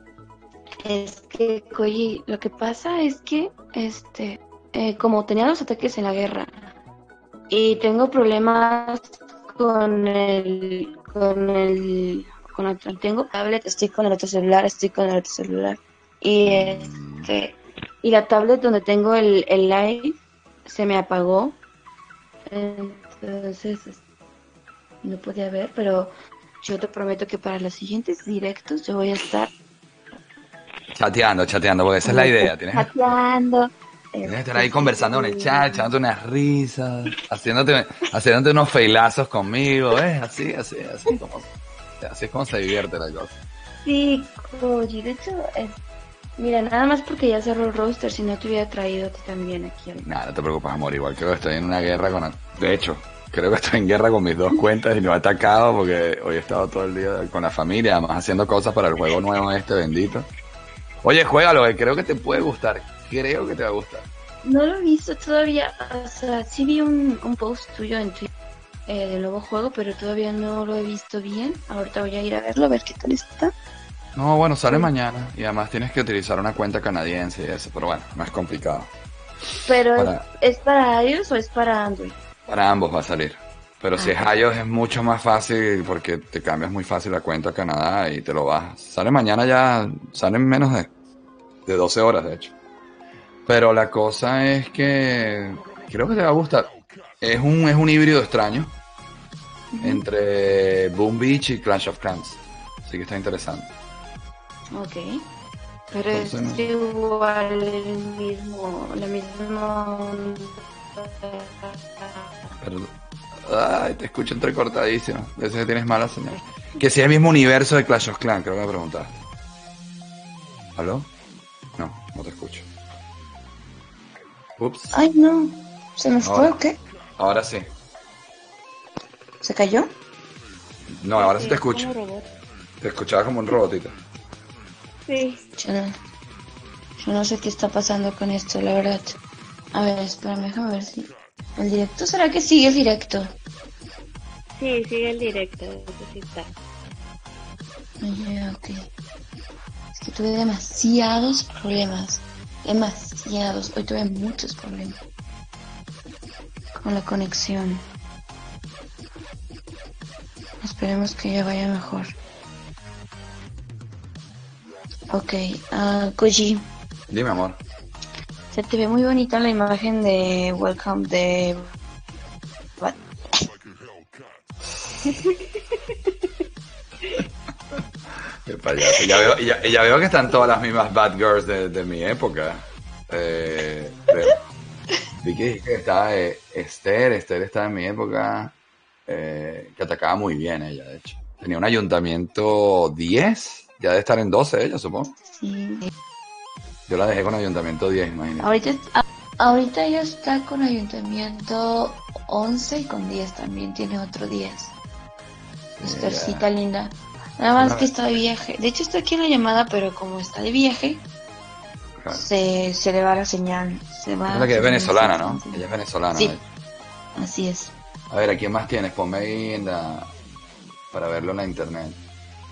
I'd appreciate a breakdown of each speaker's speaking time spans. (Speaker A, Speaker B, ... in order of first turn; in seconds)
Speaker A: 0.8-6.8, 7.5-21.6, 22.5-24.0, 25.0-29.5, 32.0-35.9, 43.8-45.8, 46.4-50.1, 64.4-68.3, 68.9-73.5, 79.7-82.2, 84.0-84.4, 99.7-100.0, 104.7-105.2, 105.9-112.3, 124.9-126.8, 129.4-129.9, 135.6-135.9, 137.0-139.2, 139.7-143.3, 148.0-148.9, 149.9-155.0, 156.7-157.8, 160.6-162.2, 165.1-166.6, 168.5-171.7, 172.8-173.4, 178.8-179.3, 195.2-195.9, 198.4-204.7, 205.8-211.0, 212.1-216.4, 217.2-217.8
Speaker B: 16.4-17.3, 30.9-32.9, 34.2-41.5, 42.0-43.4, 50.0-60.3, 61.0-64.1, 74.2-78.9, 80.0-80.2, 82.5-90.9, 91.7-92.5, 93.5-98.8, 99.8-103.7, 106.1-106.6, 112.6-112.9, 113.5-119.1, 120.8-121.1, 121.8-122.7, 124.6-124.9, 126.2-126.6, 127.2-127.7, 131.0-131.9, 132.8-133.9, 167.1-167.6, 178.5-184.3, 185.2-188.6, 189.1-195.1, 196.9-198.6, 205.8-206.5, 207.6-207.9, 212.0-212.3, 214.3-216.4, 218.1-220.1, 220.9-222.0
Speaker C: 131.2-132.3, 135.1-135.4, 144.6-146.5